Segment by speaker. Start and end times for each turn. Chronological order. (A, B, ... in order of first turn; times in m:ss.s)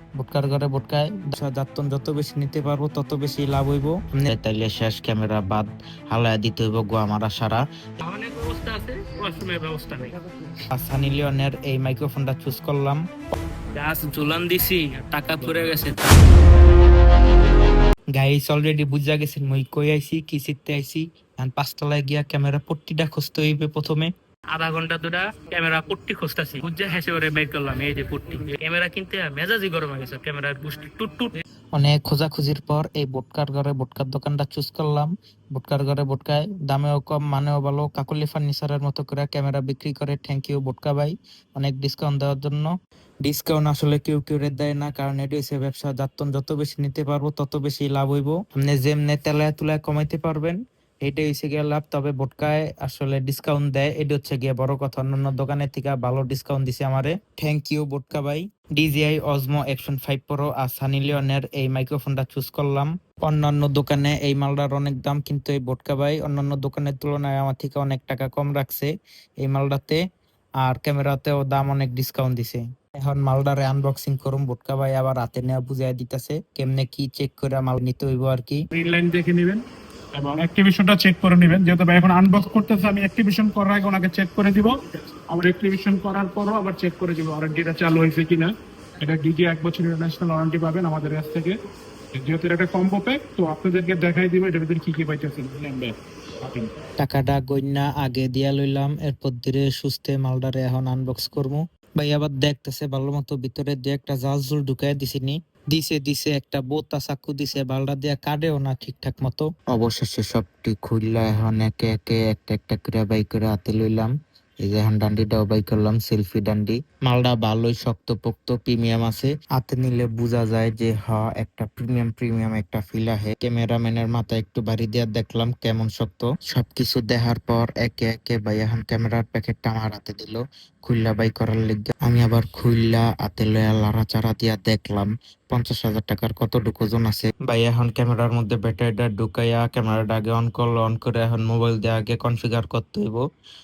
0:00.2-0:07.6 A
0:08.0-0:10.2 B
0:10.7-0:13.0 A
0:13.8-0:16.4 B
0:18.1-0:24.1 A
0:24.5-0:31.4 B
0:31.8-0:42.7 A
0:43.2-1:10.0 A
1:10.6-1:18.6 A
1:18.7-1:31.6 C
1:32.1-1:36.7 C
1:37.0-1:54.1 A
1:54.6-2:23.2 A